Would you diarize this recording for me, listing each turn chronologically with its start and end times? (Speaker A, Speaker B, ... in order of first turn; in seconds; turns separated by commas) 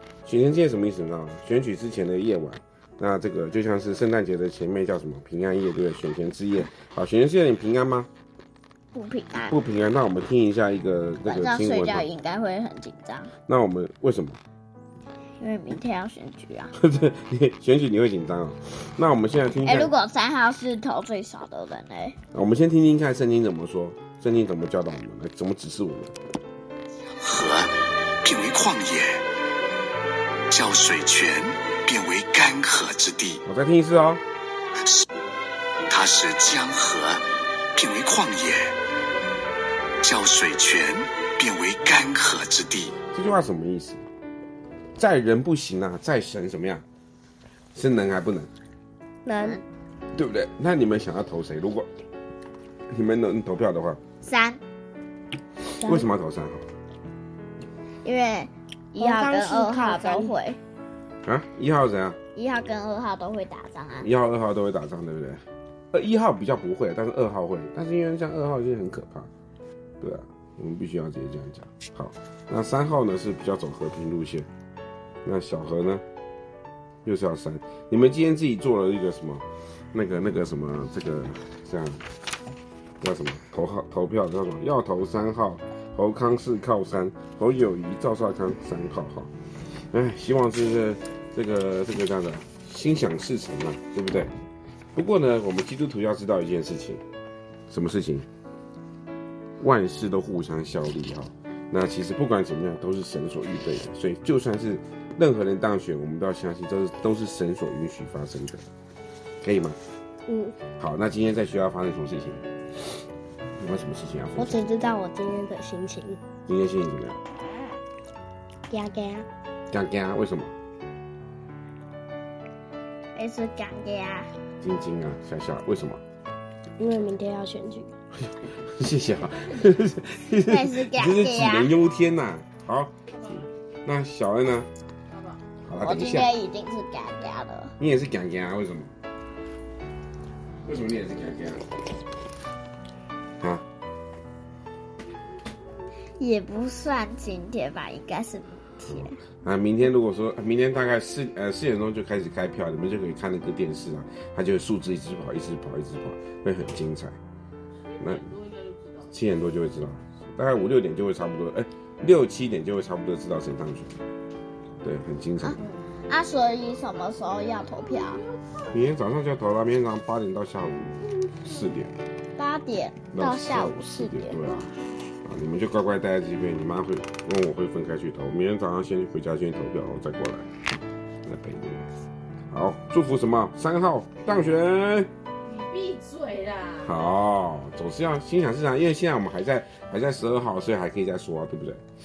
Speaker A: 0.2-8.1, Speaker B: 8.9-9.6, Speaker A: 9.5-12.1, Speaker B: 11.2-13.3, Speaker A: 13.5-14.4, Speaker B: 15.4-16.7, Speaker A: 16.8-19.9, Speaker B: 19.6-22.2, Speaker A: 22.3-26.1, Speaker C: 27.2-27.7, Speaker C: 28.2-29.2, Speaker C: 30.5-33.4, Speaker A: 33.4-34.2, Speaker C: 35.9-37.2, Speaker C: 37.8-38.7, Speaker C: 40.0-42.9, Speaker A: 43.1-44.0, Speaker A: 45.0-46.8, Speaker A: 47.8-48.5, Speaker D: 49.2-49.6, Speaker A: 50.1-51.9, Speaker A: 52.9-54.0, Speaker B: 54.2-54.6, Speaker D: 55.8-56.1, Speaker A: 55.8-56.7, Speaker B: 58.0-60.6, Speaker E: 59.0-60.3, Speaker D: 59.0-60.3, Speaker A: 61.2-62.2, Speaker B: 62.4-64.1, Speaker A: 64.0-69.3, Speaker A: 70.0-74.5, Speaker A: 75.2-76.0, Speaker A: 77.0-82.0, Speaker A: 83.0-89.3, Speaker A: 89.9-94.3, Speaker A: 95.0-97.0, Speaker A: 97.7-98.3, Speaker A: 99.6-108.6, Speaker A: 109.4-109.8, Speaker D: 110.3-110.6, Speaker A: 110.8-112.5, Speaker A: 113.6-114.7, Speaker D: 114.4-116.2, Speaker A: 116.5-117.2, Speaker D: 118.7-119.3, Speaker A: 119.7-120.5, Speaker B: 123.2-124.3, Speaker A: 124.6-126.0, Speaker D: 126.8-127.9, Speaker A: 128.2-134.7, Speaker B: 130.5-131.7, Speaker A: 135.6-136.3, Speaker B: 135.8-137.7, Speaker A: 137.8-138.9, Speaker A: 140.6-141.7, Speaker A: 143.4-143.7, Speaker B: 146.2-149.2, Speaker A: 148.9-157.2, Speaker A: 158.0-158.3, Speaker A: 159.1-163.9, Speaker A: 164.8-165.6, Speaker B: 165.4-168.2, Speaker A: 168.7-171.9, Speaker B: 172.4-174.4, Speaker A: 173.1-180.5, Speaker A: 181.2-181.9, Speaker A: 182.5-185.1, Speaker E: 185.5-186.8, Speaker A: 186.8-191.8